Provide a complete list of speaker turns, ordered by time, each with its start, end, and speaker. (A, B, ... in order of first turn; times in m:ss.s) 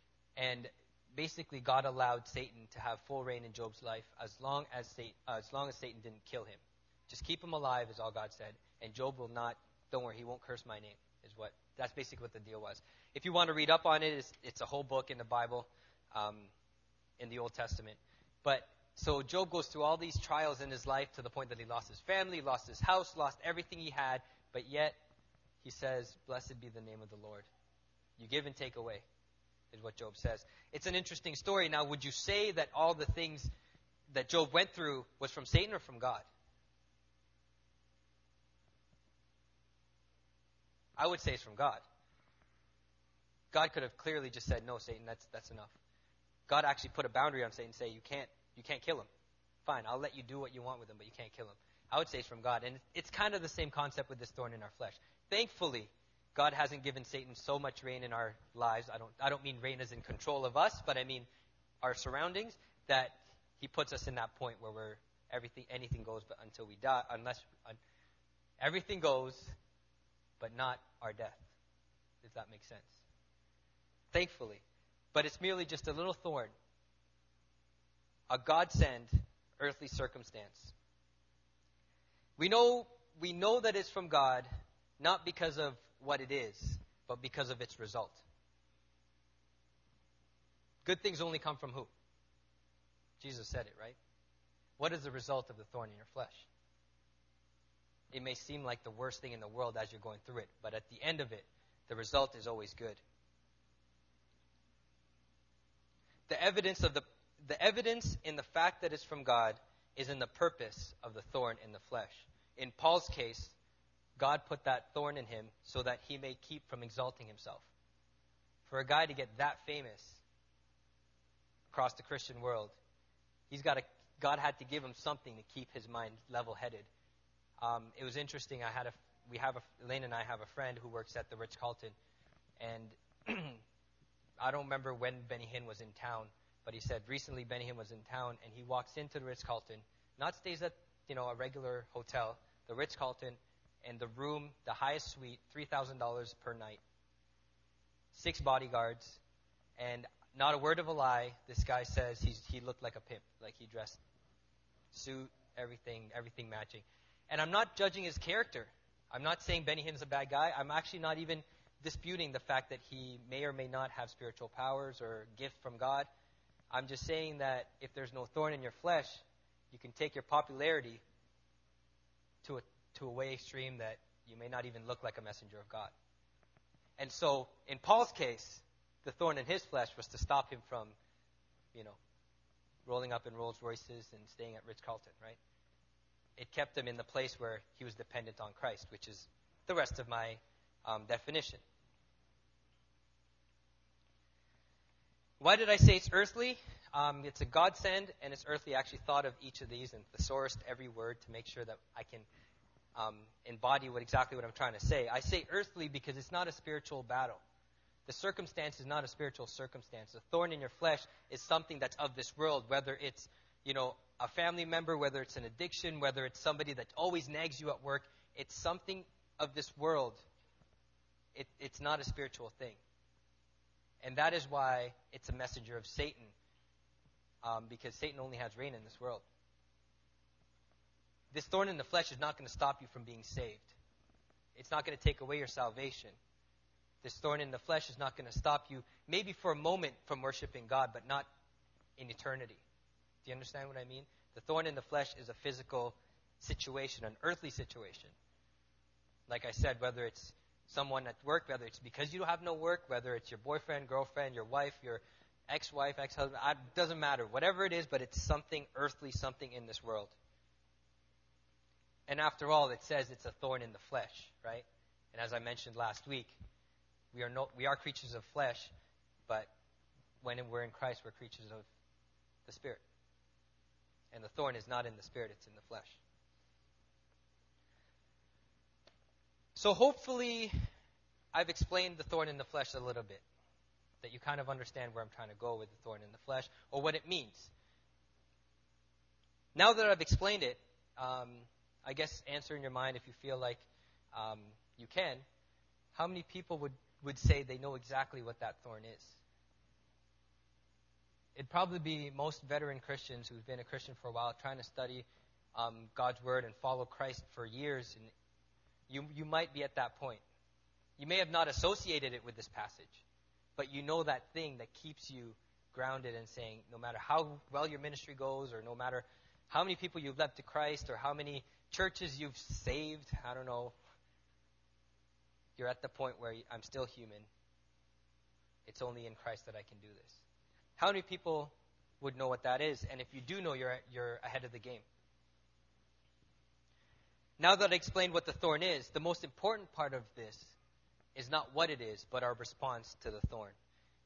0:00.4-0:16.5 A
0:17.2-0:25.0 A
0:25.6-0:27.5 A
0:28.2-0:29.0 A
0:29.7-0:33.5 A
0:34.1-0:36.3 A
0:41.0-0:41.8 A
0:43.5-0:45.8 A
0:46.5-0:49.1 A
0:49.6-1:01.3 A
1:01.8-1:07.8 A
1:08.6-1:09.6 A
1:10.4-1:11.5 A
1:12.2-1:13.0 A
1:14.1-1:14.6 A
1:15.1-1:16.5 A
1:18.3-1:20.7 A
1:22.4-1:24.5 A
1:25.0-1:28.2 A
1:30.8-1:31.9 A
1:33.2-1:34.0 A
1:34.8-1:36.5 A
1:38.1-1:43.0 A
1:46.3-1:53.6 A
1:54.2-1:57.7 A
1:58.7-2:00.2 A
2:01.7-2:02.8 A
2:03.5-2:06.9 A
2:07.6-2:12.0 A
2:12.6-2:13.6 A
2:14.4-2:26.8 A
2:28.1-2:29.2 A
2:29.8-2:34.0 A
2:34.9-2:46.1 A
2:46.7-2:51.0 A
2:52.4-2:55.9 A
2:57.0-3:01.0 A
3:02.8-3:05.4 A
3:06.4-3:11.6 A
3:15.4-3:22.3 A
3:23.0-3:27.4 A
3:28.1-3:40.2 A
3:41.4-3:42.8 A
3:44.0-3:46.3 A
3:47.4-3:49.2 A
3:51.3-3:53.8 A
3:54.6-3:56.2 A
3:57.0-4:01.3 A
4:02.0-4:02.6 A
4:03.2-4:08.1 A
4:09.3-4:20.2 A
4:22.1-4:26.4 A
4:27.1-4:28.7 A
4:30.2-4:31.7 A
4:32.5-4:32.8 A
4:34.1-4:36.0 A
4:39.6-4:40.5 A
4:41.3-4:43.2 A
4:44.0-4:47.5 A
4:49.6-4:55.2 A
4:55.9-4:59.2 A
5:01.4-5:08.1 A
5:08.9-5:10.2 A
5:11.0-5:13.0 A
5:13.6-5:23.8 A
5:25.6-5:27.3 A
5:28.6-5:30.2 A
5:30.8-5:34.8 A
5:37.4-5:40.6 A
5:41.2-5:43.6 A